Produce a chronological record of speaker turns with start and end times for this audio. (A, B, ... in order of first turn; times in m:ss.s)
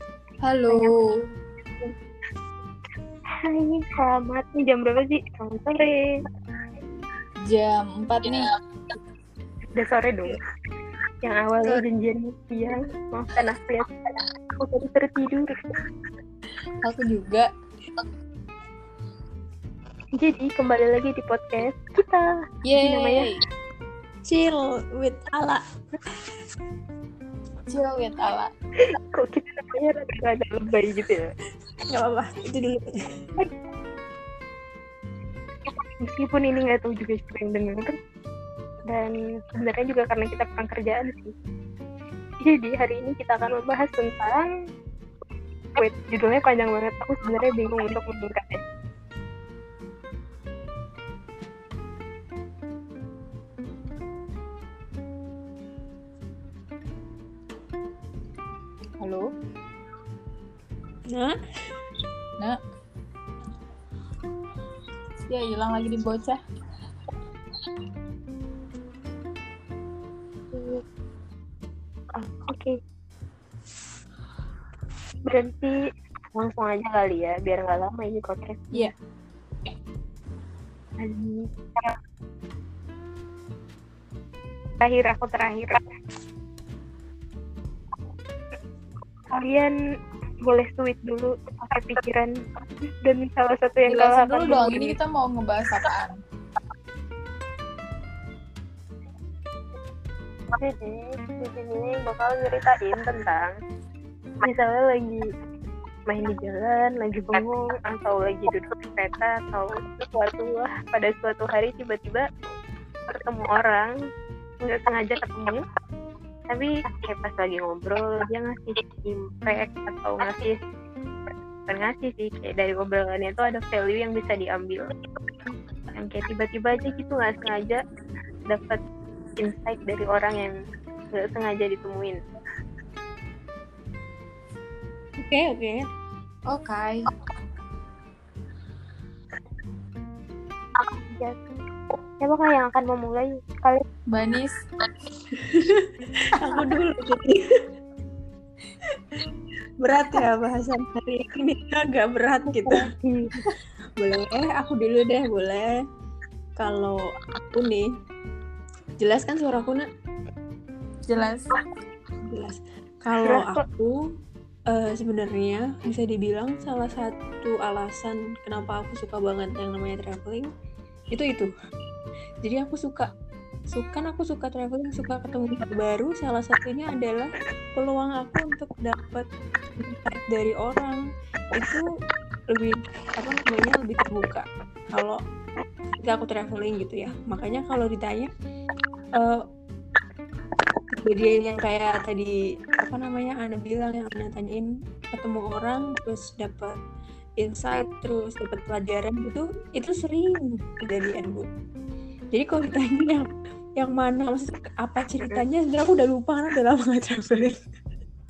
0:00.4-0:01.0 A
0:00.7-0:01.0 B
0:03.5-0:05.9 B
0:07.5-0:08.4 A
0:09.8-0:10.4 B
0:11.2-0:15.5 B
0:16.8-0:17.5 A
0:20.2-0:23.2 B
0:22.6-0:23.4 A
0:24.3-0:25.6 C
0:27.7-0:28.5 A
0:29.1-0:31.3 B
0:31.9-0:33.0 C
0:36.0-0:37.9 B
0:38.9-0:41.3 B
0:42.4-0:44.5 B
0:45.8-0:48.6 B
0:59.0-0:59.2 A
1:05.3-1:06.4 A
1:10.5-1:10.8 B
1:12.2-1:12.7 B
1:15.2-1:15.7 B
1:16.3-1:18.9 B
1:21.0-1:22.0 B
1:24.8-1:25.8 B
1:29.4-1:29.7 B
1:30.4-1:32.3 B
1:32.9-1:35.0 B
1:33.9-1:36.1 A
1:40.5-1:43.5 B
1:44.4-1:45.2 B
1:46.1-1:52.2 B
1:53.1-1:53.9 B
1:54.6-1:55.6 B
1:56.5-2:00.6 B
2:01.7-2:04.9 B
2:05.9-2:07.8 B
2:08.5-2:08.8 B
2:09.4-2:10.5 B
2:11.1-2:12.2 B
2:15.2-2:15.8 C
2:16.5-2:17.0 A
2:22.2-2:23.8 B
2:24.1-2:24.6 A
2:25.4-2:27.4 C
2:29.8-2:32.8 C
2:32.5-2:33.3 B
2:33.4-2:35.7 C
2:36.6-2:37.0 C
2:37.5-2:37.8 C
2:39.0-2:39.8 C
2:41.1-2:41.5 A
2:42.3-2:44.0 C
2:43.2-2:43.6 B
2:44.7-2:50.5 C
2:51.1-2:51.5 C
2:52.4-2:53.1 C
2:53.7-2:59.3 C
2:59.8-3:01.0 C
3:01.5-3:01.9 C
3:02.5-3:05.2 C
3:06.0-3:08.3 C
3:10.9-3:16.7 C
3:17.4-3:21.4 C
3:22.3-3:27.6 C